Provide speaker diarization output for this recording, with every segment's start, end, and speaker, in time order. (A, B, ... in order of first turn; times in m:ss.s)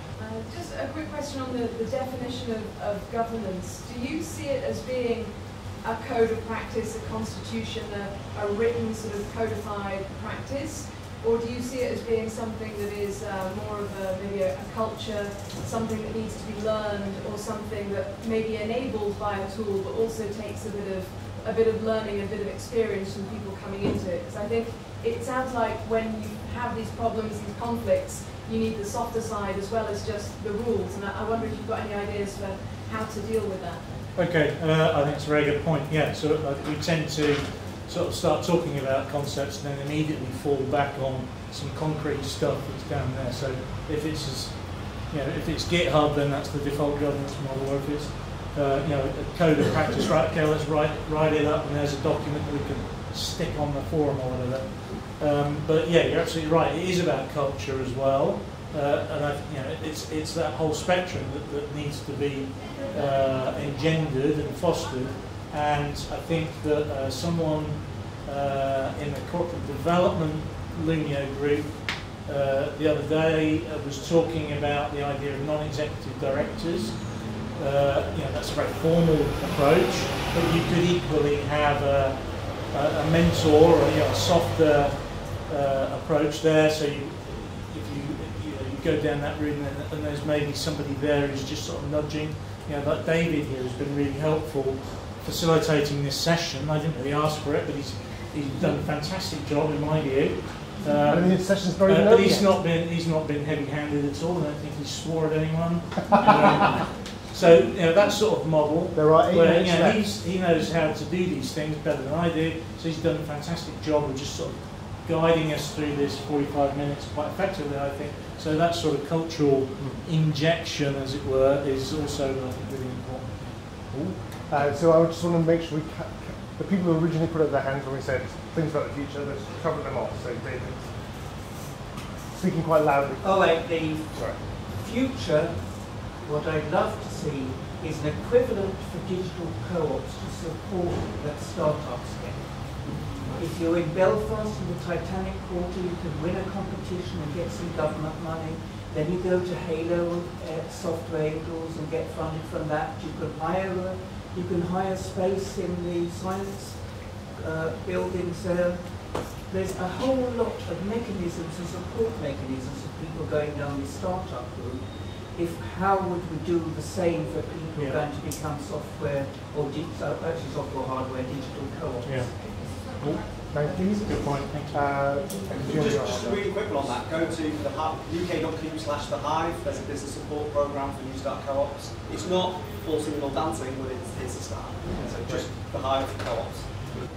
0:00.2-0:34.1 A
0:34.1-2:03.6 B
1:41.1-1:42.6 C
1:48.9-1:50.2 C
1:59.8-2:00.0 C
2:03.9-2:11.1 C
2:12.3-2:14.4 C
2:13.2-2:52.4 D
2:47.7-2:48.0 B
2:52.0-2:55.2 B
2:53.1-2:57.0 C
2:55.6-3:06.9 E
3:05.0-3:05.5 C